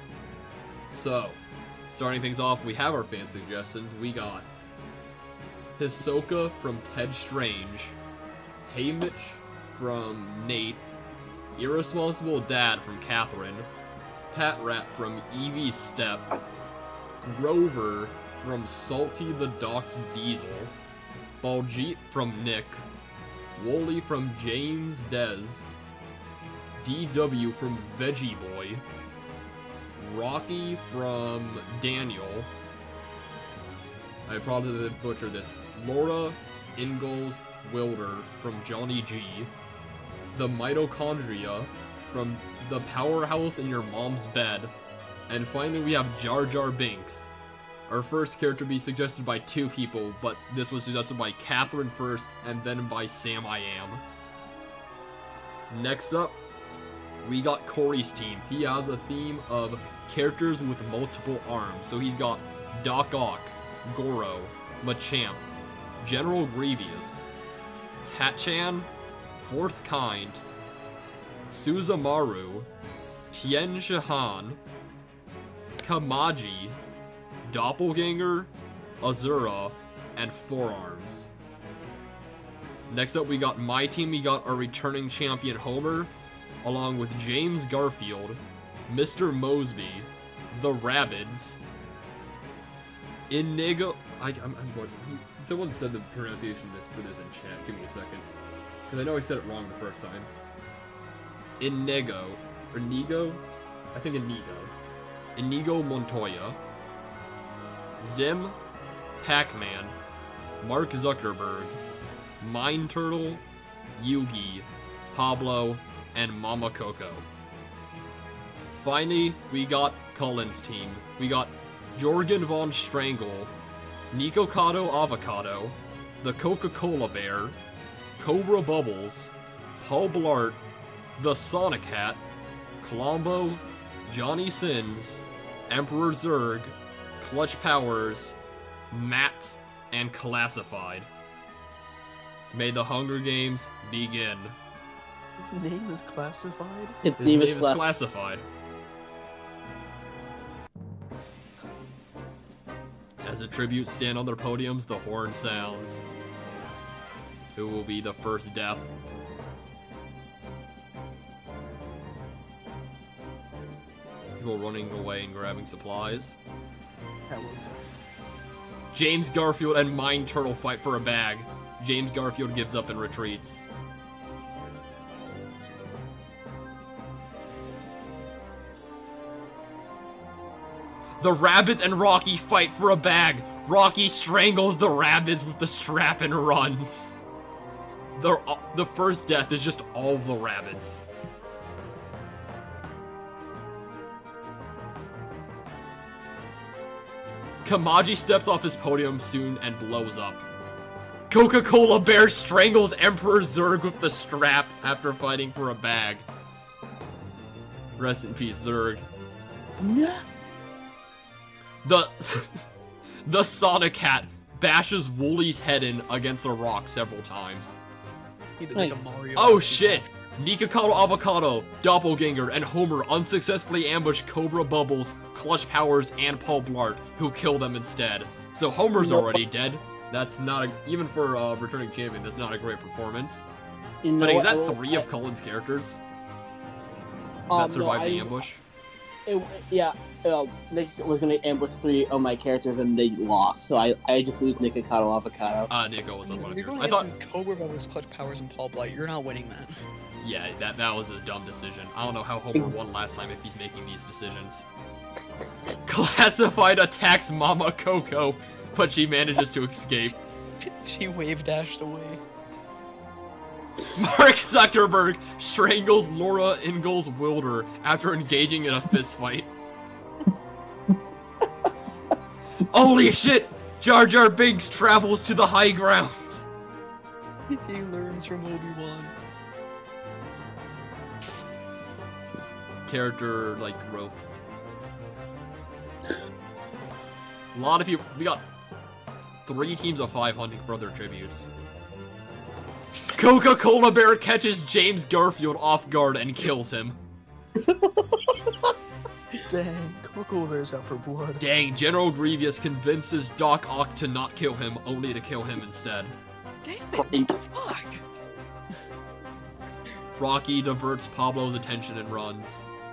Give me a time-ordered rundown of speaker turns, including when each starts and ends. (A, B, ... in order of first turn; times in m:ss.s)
0:00.9-0:04.5 A
0:05.8-0:08.0 A
0:08.6-0:10.8 A
0:11.6-0:13.7 A
0:14.3-0:16.3 A
0:17.2-0:20.7 A
0:21.4-0:22.9 A
0:23.5-0:25.7 A
0:26.8-0:28.8 A
0:30.0-0:32.5 A
0:34.3-0:39.5 A
0:40.3-0:44.7 A
0:45.3-0:47.3 A
0:47.9-0:54.0 A
0:55.7-0:56.4 A
0:57.2-1:05.4 A
1:06.0-1:07.2 A
1:08.0-1:10.4 A
1:11.5-1:12.7 A
1:13.3-1:14.6 A
1:15.8-1:16.8 A
1:17.5-1:21.3 A
1:22.9-1:26.1 A
1:26.6-1:31.6 A
1:33.3-1:38.3 A
1:38.9-1:40.3 A
1:41.6-1:43.4 A
1:43.9-1:44.8 A
1:45.4-1:46.6 A
1:48.0-1:48.6 A
1:49.2-1:50.0 A
1:50.6-1:51.8 A
1:52.4-1:53.4 A
1:54.0-1:57.3 A
1:58.8-2:03.5 A
2:04.1-2:07.6 A
2:08.2-2:10.6 A
2:11.2-2:12.2 A
2:12.8-2:18.4 A
2:18.9-2:21.1 A
2:22.5-2:24.6 A
2:25.5-2:27.0 B
2:27.0-2:27.8 C
2:27.2-2:28.5 A
2:33.2-2:36.0 A
2:37.6-2:38.9 A
2:44.4-2:46.4 A
2:47.3-2:47.8 B
2:48.9-2:53.7 A
3:01.2-3:07.2 A
3:08.2-3:11.0 A
3:17.6-3:20.5 A
3:21.3-3:26.3 A
3:28.0-3:29.1 A
3:29.8-3:30.2 C
3:31.8-3:32.6 A
3:33.2-3:37.8 A
3:38.6-3:40.1 B
3:39.4-3:53.4 A
3:48.9-3:49.4 C
3:54.0-3:55.0 C
3:54.2-3:56.0 A
3:57.5-3:58.6 A
3:57.5-3:58.4 C
3:59.3-4:05.7 C
4:05.7-4:07.1 A
4:06.2-4:09.7 B
4:10.2-4:14.7 A
4:15.9-4:20.2 A
4:20.8-4:22.2 B
4:23.9-4:29.5 A
4:32.7-4:36.5 A
4:37.5-4:39.1 B
4:42.9-4:44.3 A
4:47.5-4:48.4 A
4:49.4-4:51.5 A
4:53.1-4:57.0 A
4:57.7-4:58.5 C
4:59.5-5:01.4 B
5:01.4-5:06.1 A
5:06.6-5:08.0 B
5:06.9-5:07.4 C
5:10.2-5:12.7 A